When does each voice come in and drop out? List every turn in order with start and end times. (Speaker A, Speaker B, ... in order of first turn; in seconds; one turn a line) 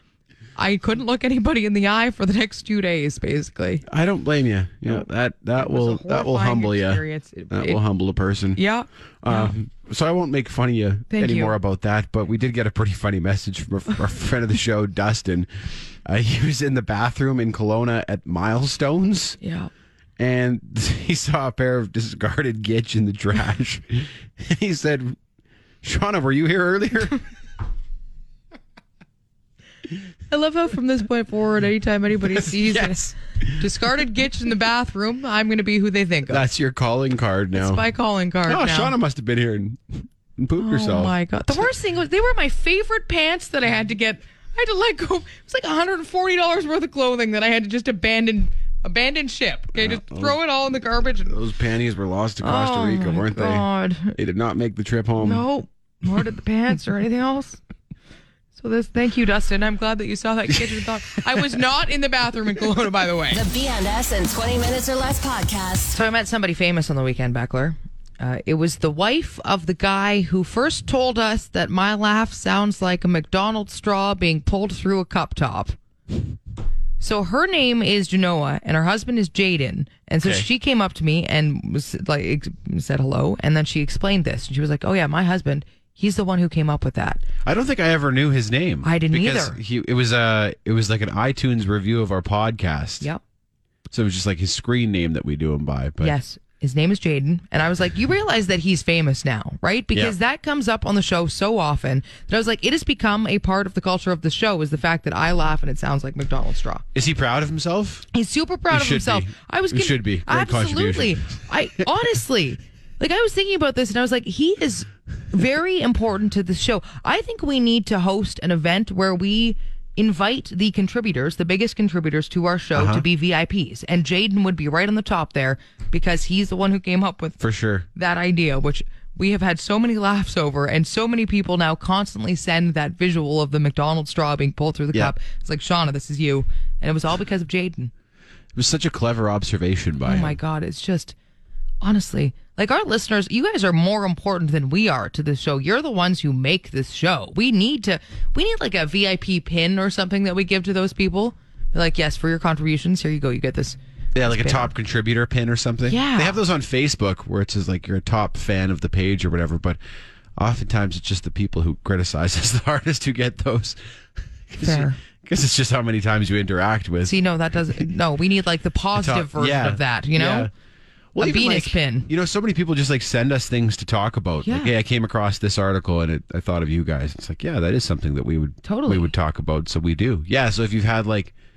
Speaker A: 0.6-3.8
Speaker B: 3.9-8.6
Speaker A: 5.6-7.8
Speaker A: 8.6-9.5
Speaker B: 9.2-15.5
Speaker A: 11.1-11.6
Speaker B: 16.0-19.4
Speaker A: 19.4-19.7
Speaker B: 20.2-25.2
Speaker B: 25.8-27.2
Speaker A: 30.3-36.4
Speaker B: 32.3-33.7
Speaker B: 36.3-37.9
Speaker A: 37.5-38.9
Speaker B: 38.5-41.7
Speaker A: 40.6-51.4
Speaker B: 49.7-50.4
Speaker B: 51.3-55.5
Speaker A: 52.4-54.1
Speaker A: 55.2-57.6
Speaker A: 58.6-63.4
Speaker C: 63.3-65.9
Speaker A: 65.9-75.8
Speaker A: 77.0-87.2
Speaker B: 87.4-93.1
Speaker A: 88.8-89.6
Speaker B: 93.9-96.2
Speaker A: 96.0-106.8
Speaker B: 106.9-108.1
Speaker A: 108.1-127.4
Speaker B: 108.7-111.8
Speaker B: 122.7-123.0
Speaker B: 127.4-127.9
Speaker A: 127.9-137.9
Speaker B: 138.5-140.4
Speaker A: 140.0-141.1
Speaker A: 141.8-154.7
Speaker B: 154.1-159.8
Speaker A: 155.9-156.4
Speaker B: 160.4-163.8
Speaker B: 164.5-167.2
Speaker A: 164.6-165.0
Speaker A: 167.0-170.5
Speaker B: 168.9-170.5
Speaker B: 171.1-181.3
Speaker A: 171.2-172.1
Speaker A: 174.4-174.7
Speaker A: 178.6-179.1